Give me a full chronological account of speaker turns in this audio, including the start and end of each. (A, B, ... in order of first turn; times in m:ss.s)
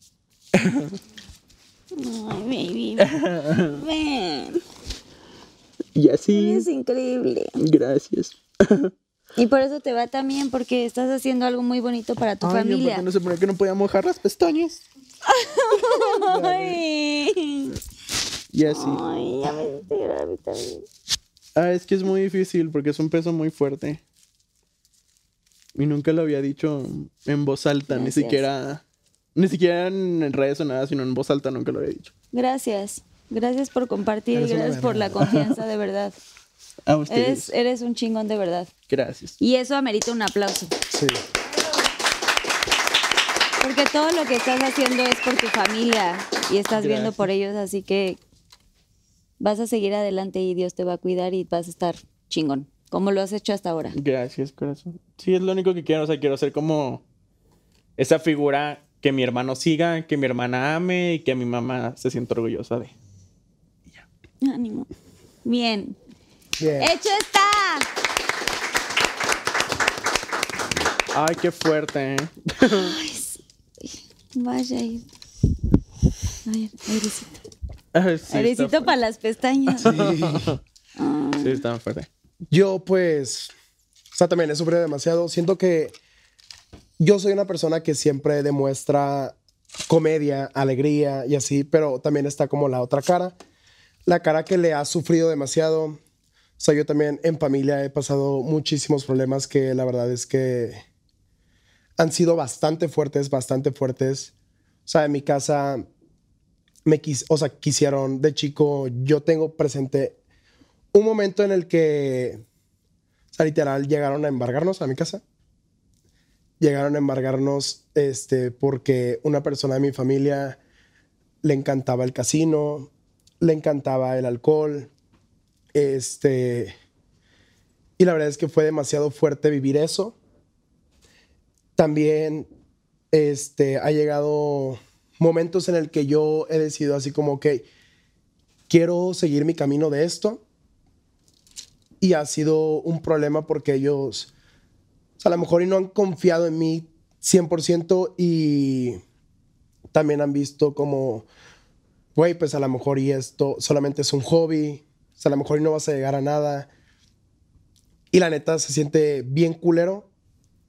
0:00.5-0:01.0 A
0:02.0-0:04.6 B
0:03.0-0:03.8 A
0:06.0-0:06.7 A
0:06.3-0:07.6 B
0:07.6-0:08.9 A
0:09.4-0:13.0 B
0:12.4-0:14.8 A
0:15.3-0:17.8 B
0:18.5-0:19.0 A
0:18.7-0:20.8 B
0:21.6-0:24.0 A
0:25.7-0:28.8 A
0:27.9-0:28.4 B
0:29.4-0:32.1 A
0:32.3-0:36.2 B
0:34.3-0:35.6 A
0:36.8-0:37.5 A
0:37.1-0:38.7 B
0:38.9-0:39.4 A
0:39.4-0:40.7 B
0:40.9-0:41.2 C
0:43.6-0:48.2 B
0:46.7-0:47.2 A
0:49.4-0:54.0 B
0:53.9-0:57.0 A
0:58.0-1:02.9 A
1:04.4-1:04.9 B
1:05.4-1:06.0 B
1:06.6-1:06.9 C
1:06.8-1:07.9 B
1:11.1-1:12.9 A
1:12.6-1:15.0 B
1:16.4-1:17.4 B
1:17.9-1:18.9 A
1:18.3-1:19.9 B
1:19.7-1:20.6 A
1:19.8-1:20.5 C
1:21.0-1:21.6 B
1:21.4-1:22.1 A
1:22.5-1:23.5 C
1:24.1-1:26.0 C
1:27.0-1:29.4 C
1:29.9-1:33.4 C
1:34.0-1:36.0 C
1:36.6-1:40.8 C
1:42.0-1:44.3 C
1:44.8-1:45.8 C
1:46.8-1:50.2 C
1:50.9-1:52.4 C
1:53.3-1:55.2 C
1:56.6-2:00.6 C
2:01.4-2:04.9 C
2:05.7-2:06.7 C
2:08.0-2:10.2 C
2:11.8-2:12.5 C
2:13.1-2:17.6 C
2:18.7-2:20.4 C
2:22.0-2:24.3 C
2:25.2-2:29.0 C
2:29.9-2:31.3 C
2:32.1-2:36.7 C
2:38.1-2:40.1 C